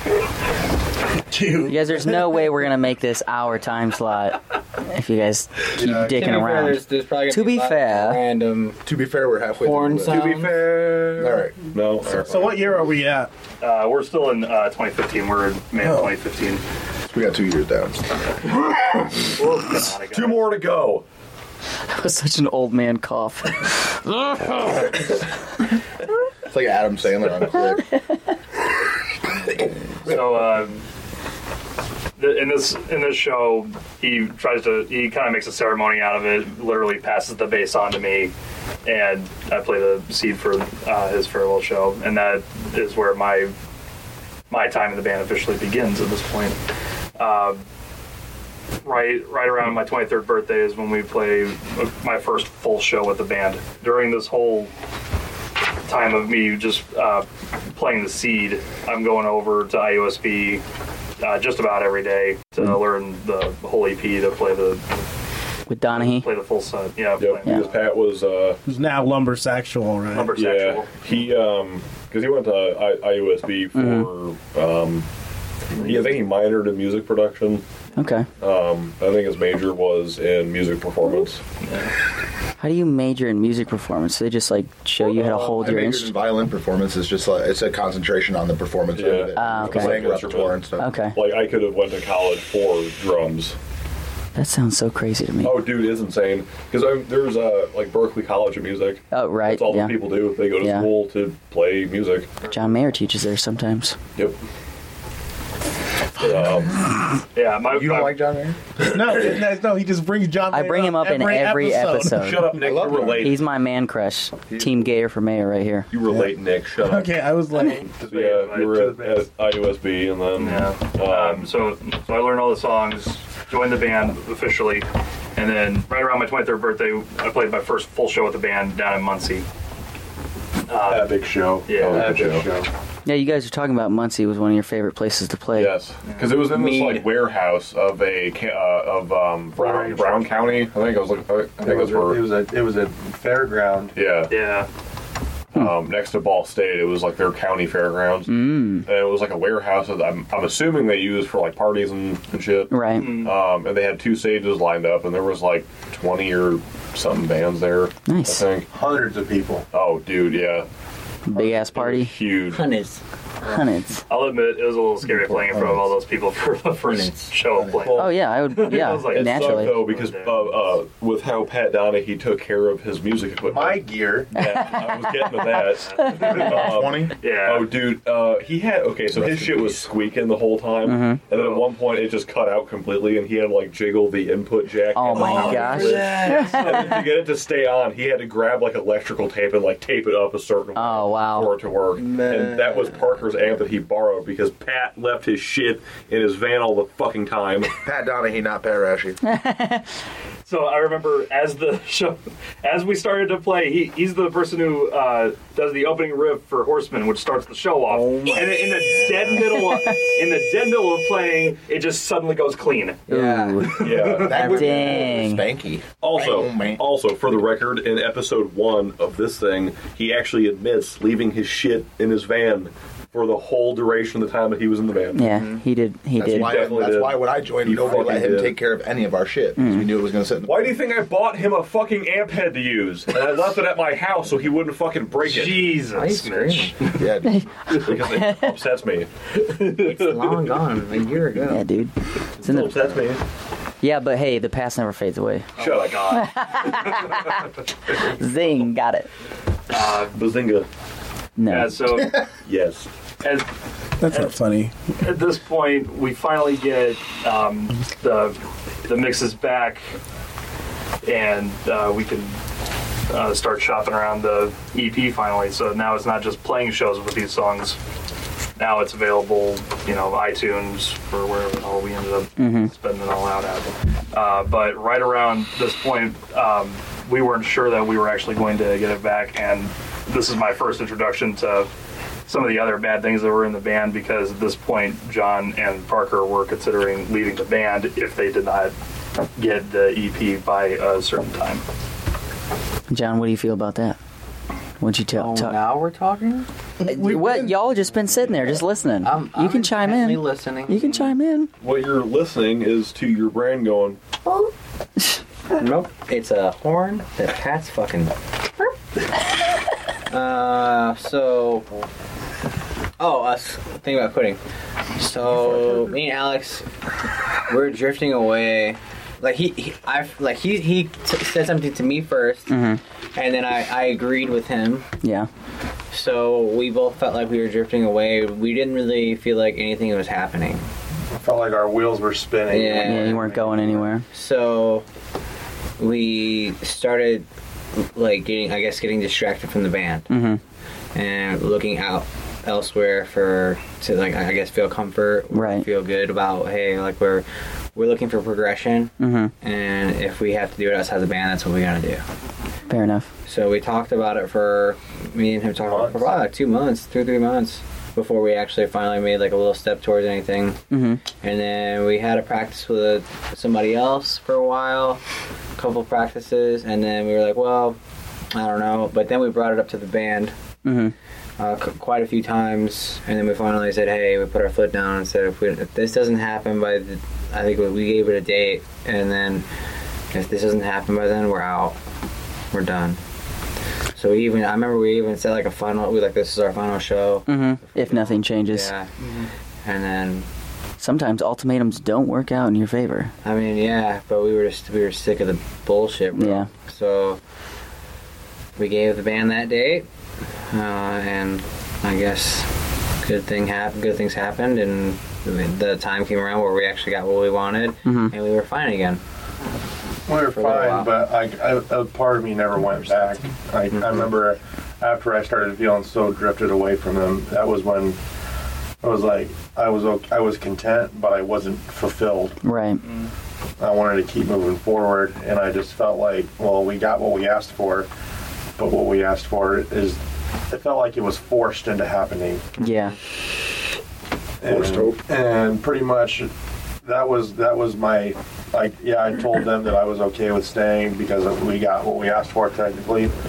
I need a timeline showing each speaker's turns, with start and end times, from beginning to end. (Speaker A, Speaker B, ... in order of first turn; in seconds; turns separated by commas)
Speaker A: 1.3-2.2, Speaker B: 1.7-8.2, Speaker C: 5.8-8.8, Speaker D: 5.8-6.1, Speaker D: 8.8-10.4, Speaker C: 9.5-10.6, Speaker E: 10.1-12.6, Speaker D: 11.2-12.9, Speaker A: 12.2-13.3, Speaker F: 13.6-16.6, Speaker A: 15.8-16.1, Speaker D: 17.1-18.0, Speaker F: 19.2-20.5, Speaker E: 20.1-21.0, Speaker B: 21.9-23.8, Speaker D: 26.4-27.9, Speaker F: 30.0-30.8, Speaker F: 32.2-38.3, Speaker F: 38.8-43.5, Speaker F: 44.5-46.6, Speaker F: 47.1-47.6, Speaker F: 48.8-54.7, Speaker F: 55.9-60.6, Speaker F: 61.2-64.8, Speaker B: 65.7-66.3, Speaker F: 65.9-67.9, Speaker E: 67.2-68.6, Speaker A: 68.7-70.3, Speaker F: 70.1-70.9, Speaker E: 70.3-75.0, Speaker B: 73.7-74.1, Speaker E: 75.7-77.6, Speaker B: 78.0-78.3, Speaker E: 78.4-81.4, Speaker F: 81.6-81.9, Speaker B: 82.6-86.1, Speaker D: 85.4-91.0, Speaker E: 88.9-90.6, Speaker B: 89.3-90.0, Speaker B: 90.8-91.2, Speaker E: 91.1-93.6, Speaker B: 94.3-95.6, Speaker E: 95.4-102.3, Speaker B: 99.1-100.0, Speaker B: 100.6-100.9, Speaker B: 102.5-104.0, Speaker E: 106.2-106.8, Speaker F: 107.3-108.3, Speaker D: 107.7-108.6, Speaker A: 108.8-112.3, Speaker B: 110.5-112.5, Speaker E: 112.1-113.4, Speaker D: 112.6-113.3, Speaker B: 113.2-115.9, Speaker D: 114.5-114.9, Speaker E: 115.9-117.3, Speaker A: 116.8-117.9, Speaker E: 118.0-121.5, Speaker F: 118.0-118.8, Speaker G: 118.0-119.2, Speaker F: 120.3-129.4, Speaker F: 130.7-132.4, Speaker G: 130.9-132.7, Speaker E: 131.8-132.4, Speaker B: 133.1-135.7, Speaker E: 135.6-142.2, Speaker F: 136.0-136.4, Speaker C: 136.5-137.1, Speaker G: 139.6-140.6, Speaker G: 141.6-143.9, Speaker E: 143.9-144.3, Speaker F: 144.3-144.7, Speaker E: 145.5-158.7, Speaker B: 148.3-148.9, Speaker B: 152.7-153.2, Speaker F: 152.9-153.3, Speaker B: 158.1-158.4, Speaker G: 158.7-159.6, Speaker E: 159.7-160.7, Speaker B: 161.3-162.1, Speaker E: 161.4-162.7, Speaker C: 162.4-163.0, Speaker B: 163.4-164.0, Speaker F: 164.1-170.7, Speaker D: 165.3-165.9, Speaker C: 166.8-167.3, Speaker D: 167.6-167.8, Speaker E: 167.7-168.1, Speaker B: 167.9-169.8, Speaker E: 168.7-197.7, Speaker G: 173.5-174.3, Speaker B: 174.4-175.0, Speaker F: 175.8-176.7, Speaker B: 175.9-176.5, Speaker D: 176.5-177.1, Speaker F: 177.2-177.7, Speaker D: 179.1-179.8, Speaker B: 180.8-181.2, Speaker F: 181.3-181.7, Speaker B: 184.9-186.9, Speaker C: 185.2-187.0, Speaker F: 185.2-185.8, Speaker B: 190.8-191.5, Speaker C: 192.0-193.2, Speaker D: 197.8-199.2, Speaker B: 199.2-199.9, Speaker F: 200.4-213.1, Speaker C: 207.9-209.6, Speaker C: 213.1-215.2, Speaker B: 213.1-215.4, Speaker E: 213.8-214.6, Speaker D: 214.2-216.8, Speaker E: 216.0-225.3, Speaker B: 225.1-226.6, Speaker C: 225.2-225.6, Speaker D: 226.2-230.8, Speaker E: 226.2-228.6, Speaker B: 229.6-229.9, Speaker E: 230.4-235.8, Speaker F: 235.2-237.1, Speaker C: 235.9-236.8, Speaker D: 236.8-237.4, Speaker E: 237.8-240.6, Speaker B: 238.0-238.5, Speaker C: 239.7-241.7, Speaker B: 241.5-242.9, Speaker E: 242.4-243.2, Speaker B: 243.8-245.5, Speaker F: 245.6-246.9, Speaker E: 245.6-247.2, Speaker B: 246.1-247.3, Speaker B: 248.1-249.1, Speaker F: 249.7-250.2, Speaker E: 250.1-250.7, Speaker B: 251.4-252.1, Speaker F: 251.4-252.2, Speaker E: 252.4-252.9, Speaker F: 253.2-253.5, Speaker A: 254.0-254.7, Speaker F: 254.0-254.4, Speaker F: 255.0-259.8, Speaker F: 261.0-262.4, Speaker F: 263.1-267.8, Speaker F: 268.6-281.7, Speaker B: 272.4-272.7, Speaker F: 282.2-288.7, Speaker F: 289.4-291.6, Speaker B: 292.9-294.0, Speaker B: 294.8-295.6, Speaker C: 295.1-296.5, Speaker B: 296.8-301.5, Speaker C: 299.0-301.1, Speaker E: 301.6-304.0, Speaker C: 305.5-308.1, Speaker C: 310.1-311.6, Speaker C: 313.0-314.4, Speaker C: 314.9-316.7, Speaker C: 317.5-322.5, Speaker B: 322.5-322.8, Speaker C: 323.1-324.9, Speaker B: 325.0-325.3, Speaker C: 325.9-330.6, Speaker G: 331.1-333.8, Speaker C: 332.5-334.8, Speaker B: 332.8-334.0, Speaker C: 335.8-340.1, Speaker B: 340.1-340.4, Speaker C: 340.9-347.2, Speaker B: 345.3-345.6, Speaker C: 347.7-352.0, Speaker B: 349.0-349.3, Speaker B: 352.7-353.1, Speaker C: 353.2-360.6, Speaker G: 355.6-356.1, Speaker B: 360.7-361.0, Speaker C: 361.2-365.0, Speaker C: 365.6-367.8, Speaker C: 368.3-370.3, Speaker B: 370.6-370.9, Speaker C: 371.4-379.4, Speaker C: 380.1-381.8, Speaker C: 382.5-383.0, Speaker C: 383.9-388.9, Speaker B: 387.3-388.7, Speaker F: 389.0-389.3, Speaker C: 389.6-390.3, Speaker B: 390.8-393.1, Speaker C: 393.2-397.2, Speaker B: 396.1-396.5, Speaker C: 398.6-399.9, Speaker C: 400.4-402.5, Speaker C: 403.0-409.0, Speaker B: 407.8-408.1, Speaker G: 410.1-418.0, Speaker C: 410.3-410.9, Speaker C: 413.7-414.1, Speaker G: 418.8-422.4, Speaker B: 422.4-422.8, Speaker F: 422.8-423.1, Speaker G: 423.6-427.9, Speaker G: 428.6-432.6, Speaker B: 432.6-432.9, Speaker G: 434.4-436.3, Speaker D: 434.4-435.0, Speaker G: 436.8-443.1